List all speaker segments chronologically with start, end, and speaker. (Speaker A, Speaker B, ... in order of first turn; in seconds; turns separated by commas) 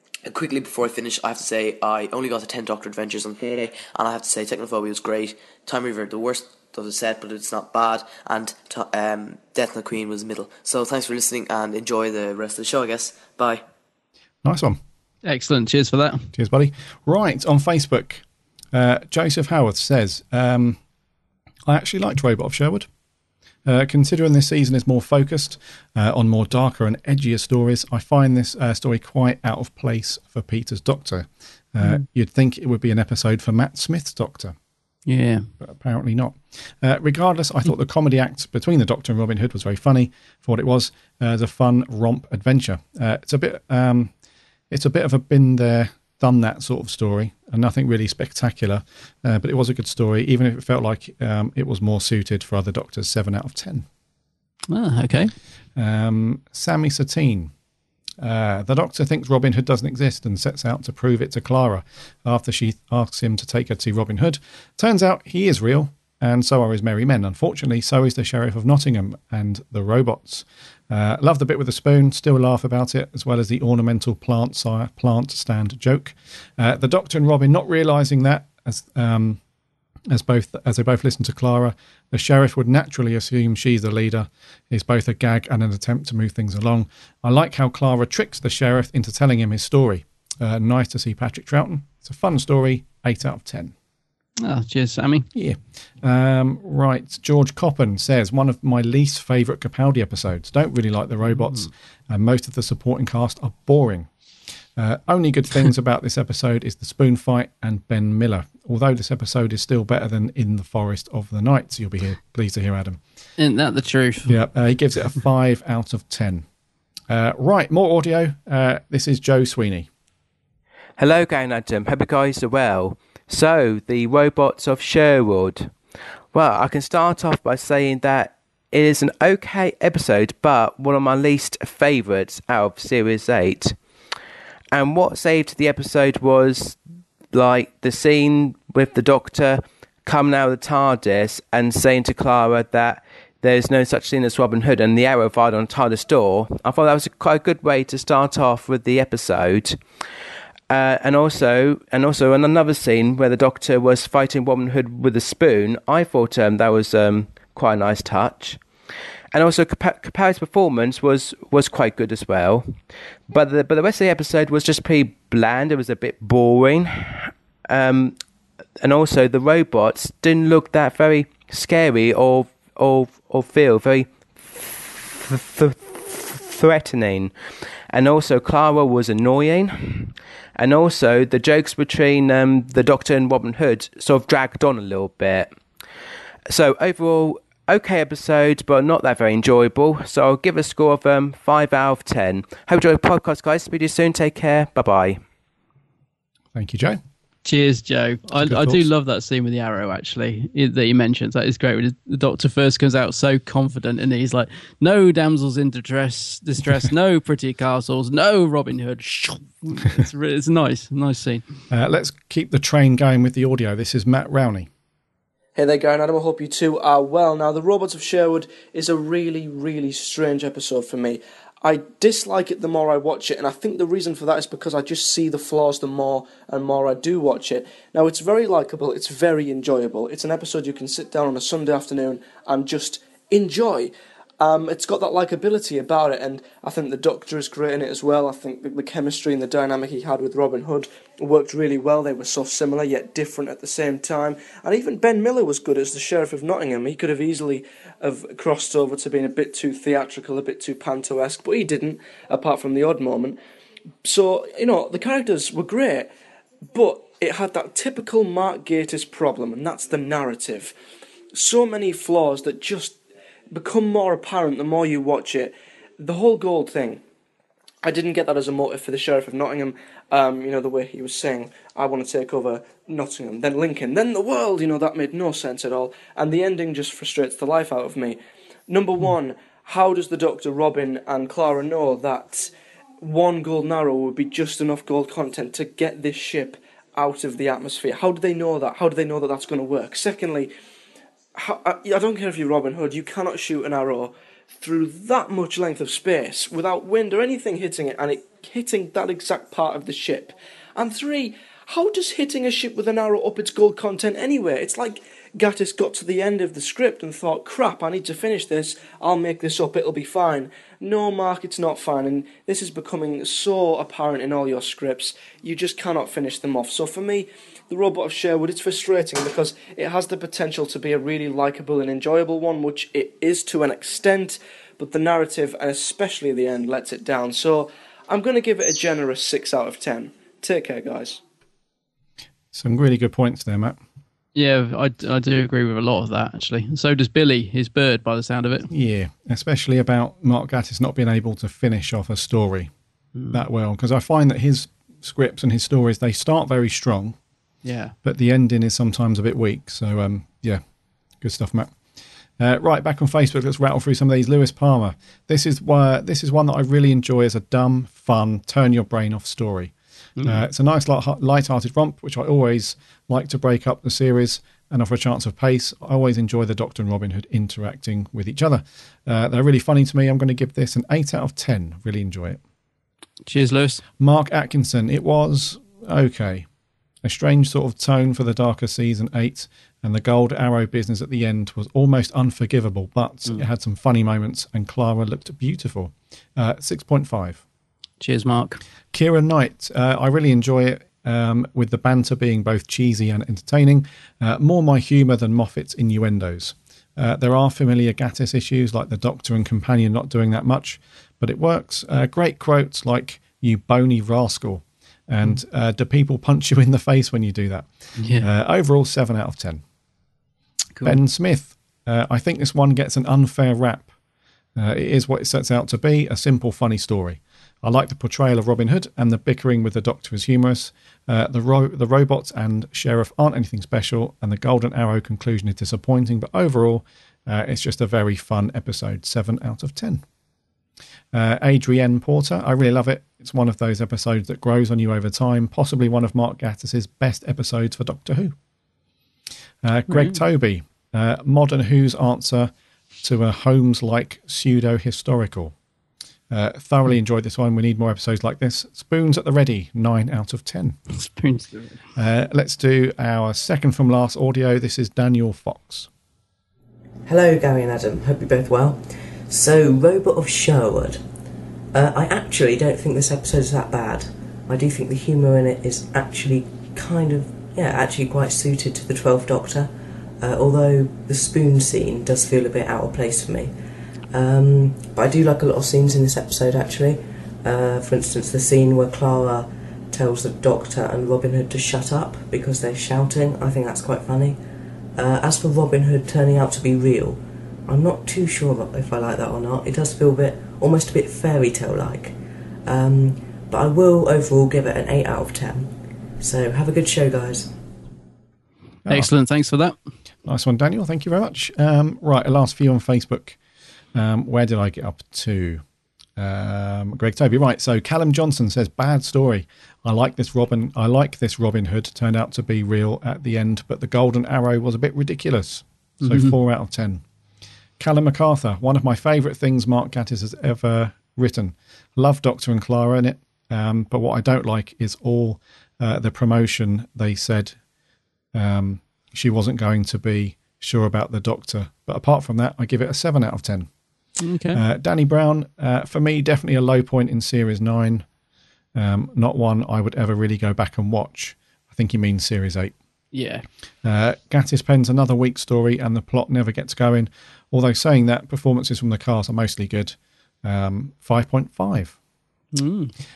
Speaker A: 0.2-13.6, Speaker B: 14.4-14.8, Speaker C: 15.3-16.3, Speaker B: 16.3-20.8, Speaker B: 21.7-22.9, Speaker B: 23.6-34.5, Speaker C: 35.1-35.5, Speaker B: 35.6-44.1, Speaker B: 44.7-53.9, Speaker C: 54.7-55.3, Speaker B: 55.8-57.5, Speaker B: 58.2-79.4, Speaker B: 80.1-93.7, Speaker C: 94.4-95.3, Speaker B: 95.3-104.1, Speaker C: 101.3-101.7, Speaker B: 104.8-113.0, Speaker C: 113.4-114.3, Speaker B: 114.3-116.5, Speaker B: 117.1-119.9, Speaker D: 121.0-125.8, Speaker D: 126.3-133.8, Speaker D: 134.7-136.8, Speaker D: 137.3-149.8, Speaker D: 150.7-158.6, Speaker D: 159.3-162.8, Speaker D: 163.3-168.2, Speaker D: 168.8-177.3, Speaker D: 177.9-185.5, Speaker D: 186.5-195.2, Speaker B: 196.5-197.0, Speaker C: 197.4-211.4, Speaker B: 198.3-198.9, Speaker B: 211.7-214.7, Speaker E: 215.6-253.4, Speaker E: 254.0-256.1, Speaker E: 256.7-260.8, Speaker E: 261.3-263.0, Speaker E: 263.5-267.0, Speaker E: 267.8-290.5, Speaker E: 291.4-331.2, Speaker B: 332.5-333.8, Speaker C: 334.4-338.7, Speaker B: 338.7-342.7, Speaker C: 343.2-343.4, Speaker B: 343.3-347.2, Speaker C: 347.6-347.9, Speaker B: 348.0-350.6, Speaker B: 351.2-351.8, Speaker B: 352.4-359.7, Speaker B: 360.2-372.4, Speaker C: 373.3-373.8, Speaker B: 374.0-376.5, Speaker B: 377.0-387.4, Speaker C: 388.0-388.6, Speaker B: 388.9-409.6, Speaker C: 408.0-408.3, Speaker B: 410.8-413.9, Speaker B: 414.6-430.0, Speaker B: 431.1-438.4, Speaker B: 439.6-442.5, Speaker C: 439.9-440.2, Speaker B: 443.0-445.5, Speaker B: 446.3-450.8, Speaker C: 450.9-451.8, Speaker B: 452.0-455.9, Speaker F: 457.1-461.0, Speaker F: 461.7-473.5, Speaker F: 474.1-484.4, Speaker F: 485.0-492.1, Speaker F: 492.7-497.5, Speaker C: 498.9-499.8, Speaker B: 500.2-503.4, Speaker B: 503.9-505.6, Speaker B: 506.2-517.0, Speaker C: 516.0-516.4, Speaker B: 517.8-527.6, Speaker B: 528.3-533.7, Speaker C: 534.2-534.6, Speaker B: 534.5-538.1, Speaker B: 538.8-542.8, Speaker C: 543.1-543.5, Speaker B: 543.8-552.0, Speaker C: 552.5-552.9